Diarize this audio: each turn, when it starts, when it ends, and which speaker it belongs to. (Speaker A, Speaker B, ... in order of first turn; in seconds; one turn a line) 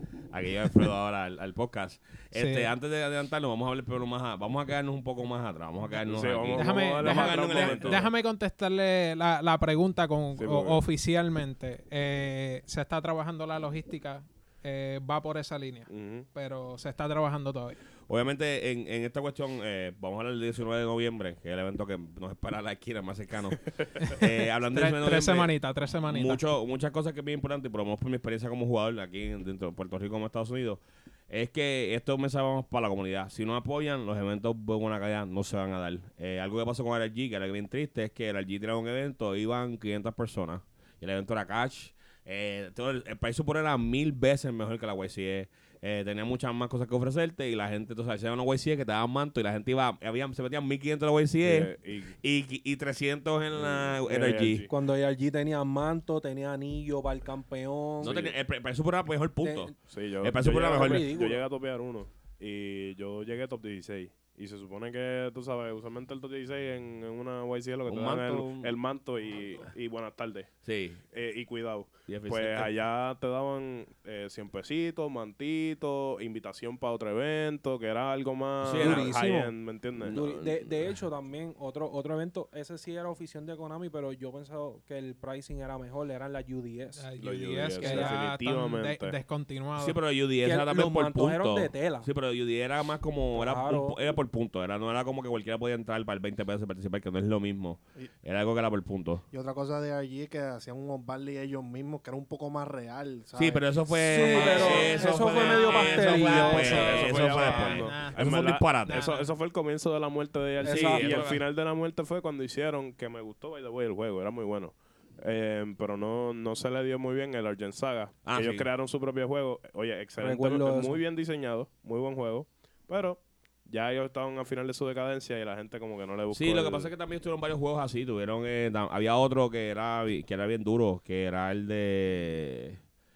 Speaker A: 0.3-8.1
Speaker B: 2.3-2.7
Speaker C: 6.1-8.1
Speaker B: 6.5-17.8
Speaker C: 10.4-10.8
Speaker C: 15.9-16.3
Speaker A: 18.1-54.6
Speaker B: 24.0-26.4
Speaker C: 51.4-52.1
Speaker C: 53.5-54.7
Speaker D: 54.7-58.3
Speaker A: 58.0-61.1
Speaker D: 59.4-59.7
Speaker C: 59.9-70.6
Speaker D: 60.5-61.4
Speaker A: 67.8-68.7
Speaker A: 70.6-71.0
Speaker C: 71.1-80.2
Speaker A: 72.1-72.7
Speaker A: 78.6-79.1
Speaker D: 78.7-79.5
Speaker A: 80.0-81.0
Speaker D: 80.1-87.0
Speaker B: 87.0-90.0
Speaker C: 87.2-89.2
Speaker D: 87.6-88.2
Speaker A: 89.8-99.2
Speaker D: 90.4-92.1
Speaker D: 93.3-94.0
Speaker E: 99.3-103.6
Speaker A: 103.3-109.1
Speaker D: 103.9-107.1
Speaker C: 104.4-105.0
Speaker B: 104.4-109.3
Speaker C: 106.5-126.9
Speaker D: 110.6-111.3
Speaker A: 110.7-111.4
Speaker A: 118.2-118.7
Speaker D: 120.2-121.0
Speaker A: 126.3-132.8